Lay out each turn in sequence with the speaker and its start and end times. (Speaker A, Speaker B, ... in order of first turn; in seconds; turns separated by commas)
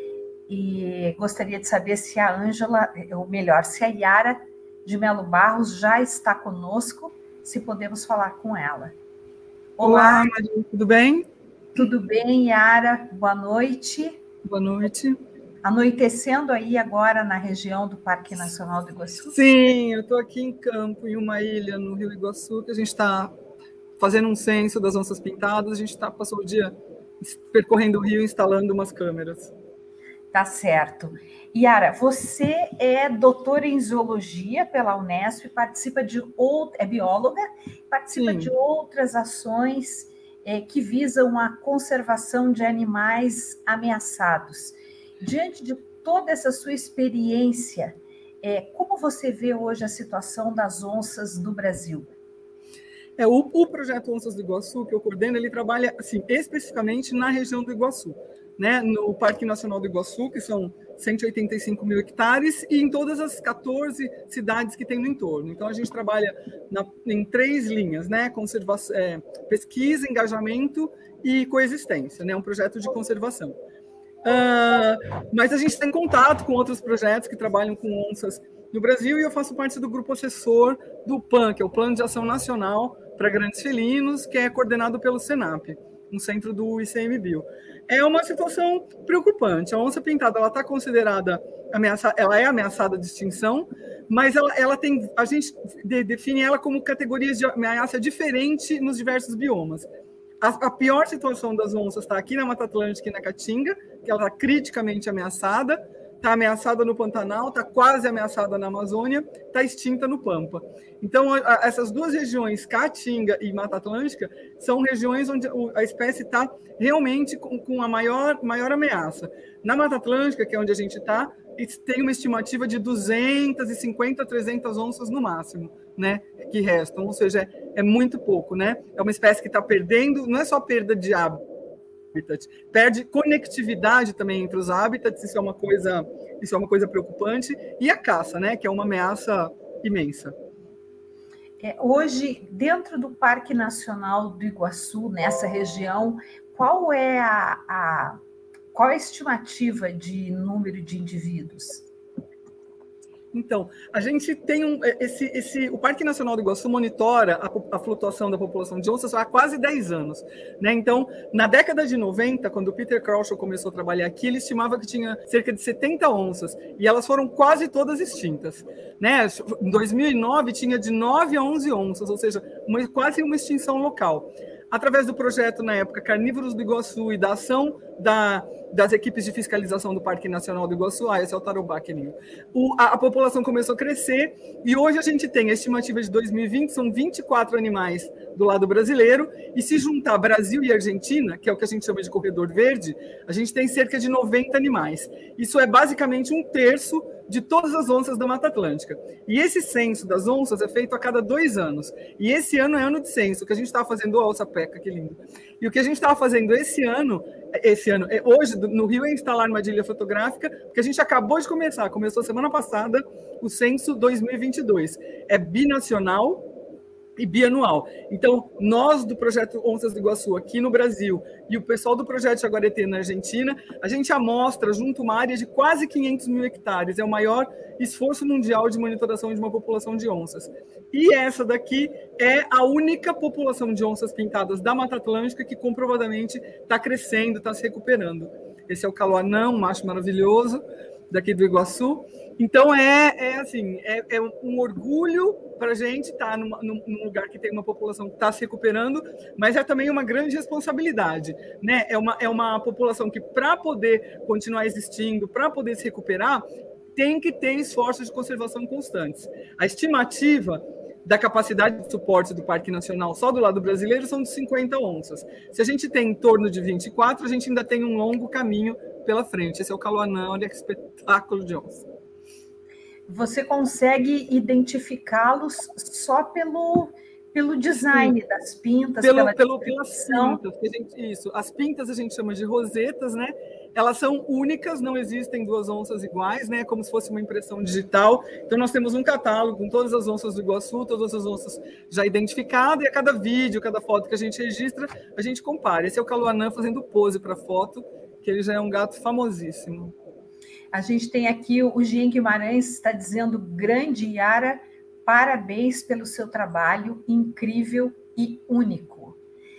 Speaker A: 0.5-8.9, Speaker A: 9.8-10.3, Speaker B: 9.8-11.3, Speaker A: 11.7-14.2, Speaker B: 14.4-15.2, Speaker A: 15.6-19.3, Speaker B: 19.2-23.3, Speaker B: 24.0-29.5, Speaker A: 30.3-52.1, Speaker B: 38.1-38.5, Speaker B: 53.2-73.5, Speaker B: 74.2-99.9, Speaker B: 100.4-131.4, Speaker B: 132.1-140.3, Speaker A: 141.6-148.2, Speaker A: 148.7-151.8, Speaker B: 153.3-216.4, Speaker B: 217.2-256.4, Speaker B: 256.9-271.8, Speaker A: 273.1-280.4, Speaker B: 277.9-278.1, Speaker B: 279.0-299.9, Speaker A: 300.7-309.1